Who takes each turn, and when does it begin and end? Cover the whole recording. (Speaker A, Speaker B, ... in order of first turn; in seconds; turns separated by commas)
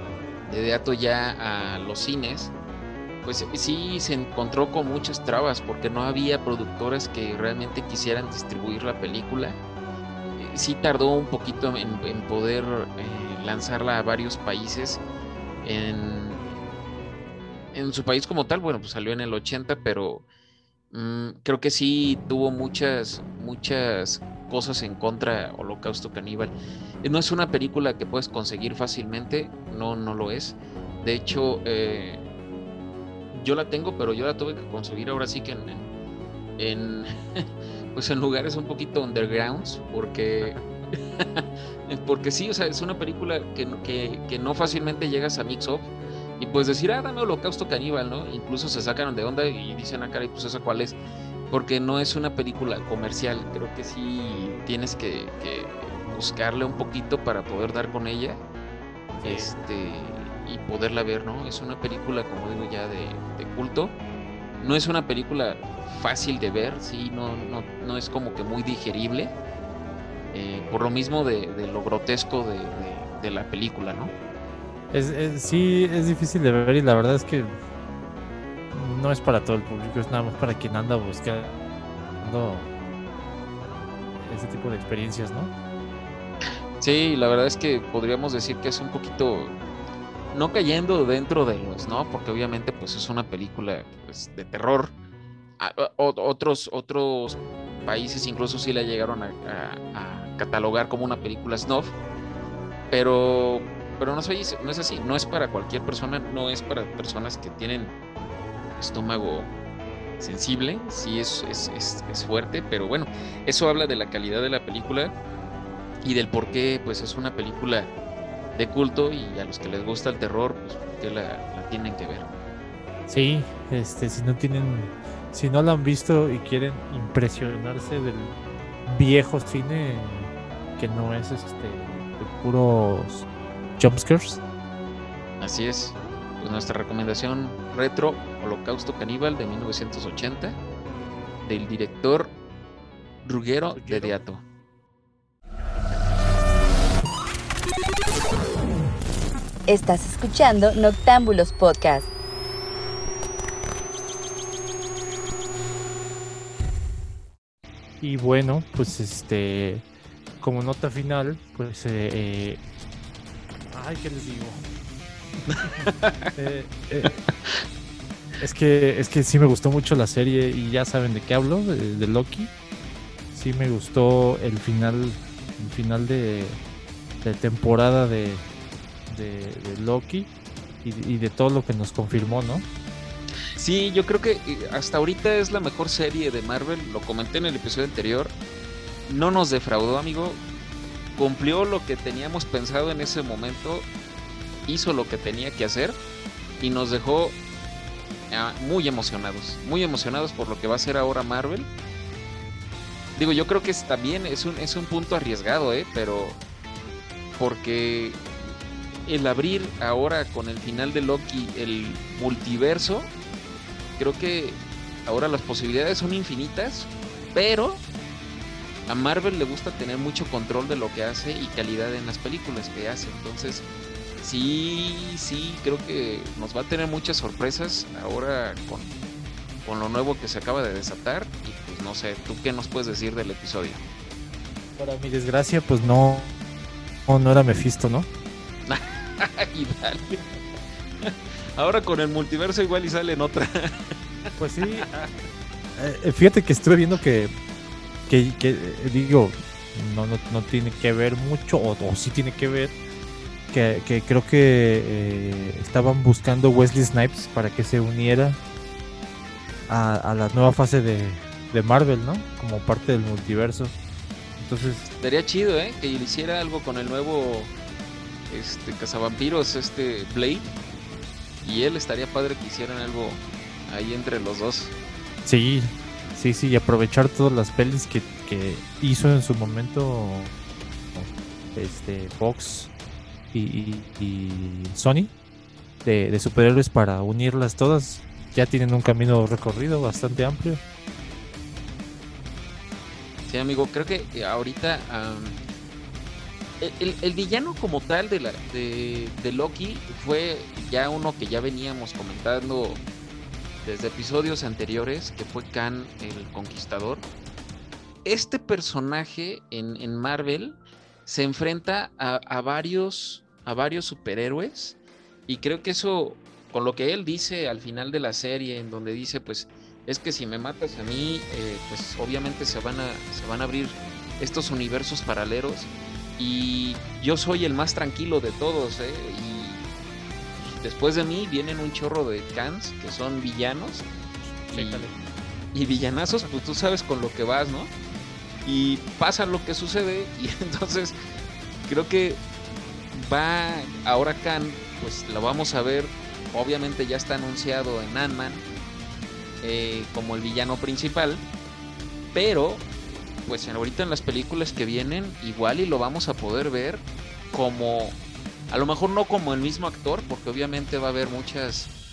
Speaker A: 0.4-2.5, Speaker A: 3.2-9.6, Speaker A: 10.3-15.0, Speaker A: 15.6-16.4, Speaker A: 17.7-20.2, Speaker A: 20.9-32.2, Speaker A: 33.3-35.9, Speaker A: 36.6-40.6, Speaker B: 40.4-40.9, Speaker A: 41.2-51.0, Speaker A: 51.5-58.4, Speaker B: 59.1-59.5, Speaker A: 59.2-64.0, Speaker A: 64.6-69.3, Speaker A: 70.3-74.1, Speaker B: 74.9-77.5, Speaker B: 78.7-81.6, Speaker B: 82.2-82.7, Speaker B: 84.1-85.5, Speaker A: 86.8-89.6, Speaker A: 90.3-94.9, Speaker A: 95.6-101.9, Speaker A: 102.9-107.9, Speaker A: 108.8-109.5, Speaker A: 110.2-115.1, Speaker A: 116.0-117.9, Speaker A: 118.5-122.2, Speaker B: 123.1-133.3, Speaker B: 133.8-134.4, Speaker A: 135.4-140.6, Speaker A: 141.4-142.3, Speaker A: 143.2-144.4, Speaker B: 143.7-144.2, Speaker C: 149.7-152.1, Speaker B: 158.0-159.8, Speaker B: 160.4-162.6, Speaker B: 163.7-164.6, Speaker A: 165.5-166.3, Speaker B: 166.3-167.2, Speaker B: 168.4-172.5, Speaker B: 173.3-176.6, Speaker B: 177.2-178.4, Speaker B: 179.1-180.3, Speaker B: 180.8-182.7, Speaker A: 183.6-188.3, Speaker A: 189.1-190.4, Speaker A: 191.1-193.9, Speaker A: 194.7-196.0, Speaker A: 196.6-197.4, Speaker A: 198.3-201.7, Speaker A: 203.2-206.4, Speaker A: 207.4-208.2, Speaker A: 209.1-213.1, Speaker A: 214.0-217.8, Speaker A: 218.9-223.6, Speaker A: 224.2-228.9, Speaker A: 229.6-233.8, Speaker B: 234.8-236.4, Speaker B: 237.1-238.1, Speaker A: 238.7-240.3, Speaker A: 241.0-243.9, Speaker B: 244.3-244.9, Speaker A: 244.6-245.1, Speaker B: 245.8-247.3, Speaker B: 248.1-252.7, Speaker B: 253.5-258.4, Speaker B: 259.7-263.8, Speaker B: 264.4-264.9, Speaker A: 265.0-267.5, Speaker A: 268.3-270.5, Speaker A: 271.4-274.7, Speaker B: 275.2-280.3, Speaker B: 280.9-282.7, Speaker B: 283.3-285.1, Speaker B: 285.8-290.6, Speaker A: 293.3-295.4, Speaker A: 296.6-302.8, Speaker A: 303.6-307.1, Speaker A: 308.0-329.7, Speaker A: 330.4-333.9, Speaker B: 334.3-334.9, Speaker A: 334.5-334.9, Speaker A: 335.5-337.7, Speaker A: 338.4-340.9, Speaker A: 341.6-342.2, Speaker A: 342.9-348.4, Speaker A: 349.4-351.2, Speaker A: 352.1-352.7, Speaker A: 353.2-358.0, Speaker A: 358.5-361.7